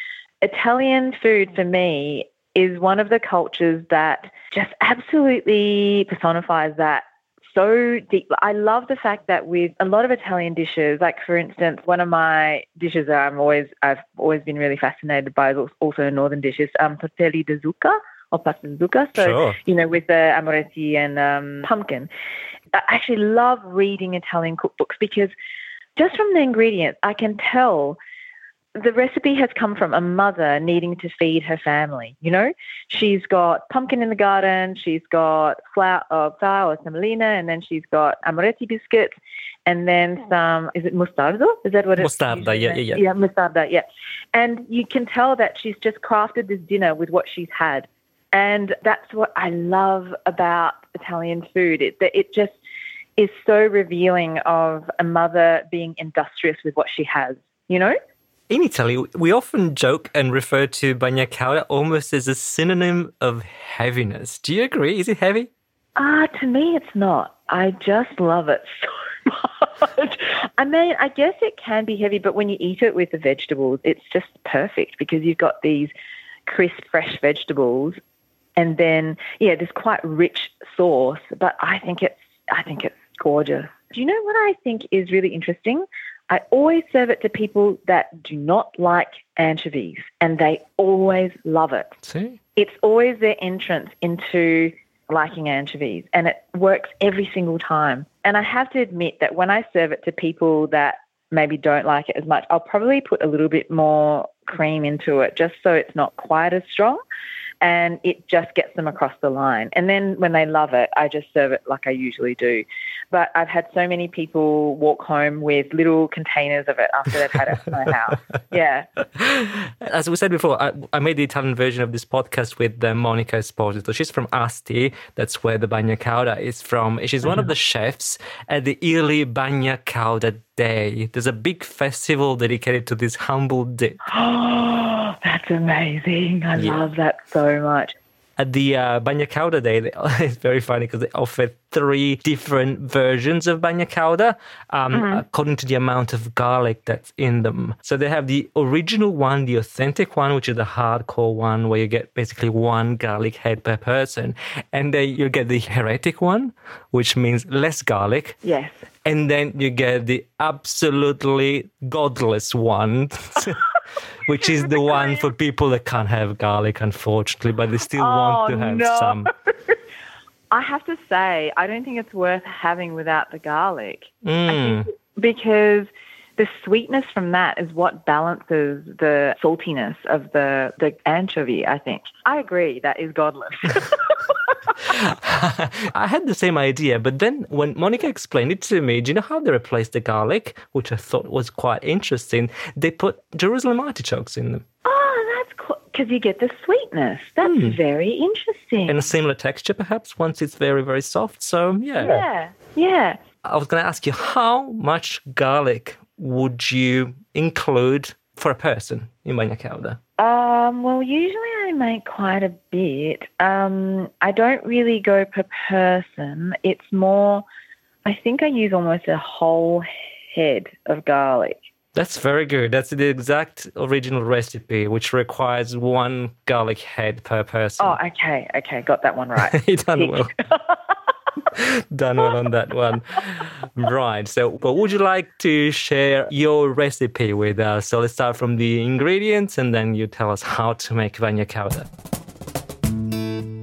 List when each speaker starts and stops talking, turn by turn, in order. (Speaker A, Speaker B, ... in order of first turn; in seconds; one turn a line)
Speaker A: 0.4-22.1
Speaker B: 19.2-19.6
Speaker A: 22.7-25.3
Speaker A: 26.0-28.0
Speaker A: 28.8-39.1
Speaker A: 39.7-52.5
Speaker B: 42.0-43.0
Speaker A: 53.2-58.0
Speaker B: 58.5-65.5
Speaker A: 66.0-75.9
Speaker A: 76.5-78.0
Speaker A: 78.6-91.9
Speaker B: 92.0-92.4
Speaker A: 92.6-107.0
Speaker A: 107.6-118.9
Speaker B: 119.2-134.0
Speaker A: 134.1-137.9
Speaker B: 136.6-136.9
Speaker B: 138.4-158.4
Speaker A: 144.9-145.2
Speaker A: 158.4-158.8
Speaker B: 159.1-163.7
Speaker B: 164.2-169.3
Speaker A: 164.4-165.2
Speaker A: 168.0-169.8
Speaker A: 170.5-184.2
Speaker B: 174.2-174.9
Speaker B: 184.9-194.6
Speaker A: 194.8-199.1
Speaker B: 197.4-197.8
Speaker B: 198.9-202.2
Speaker A: 202.0-203.2
Speaker B: 203.4-210.0
Speaker A: 210.2-217.4
Speaker A: 218.1-221.6
Speaker B: 221.9-228.0
Speaker A: 227.8-230.8
Speaker B: 229.5-230.3
Speaker B: 231.5-241.9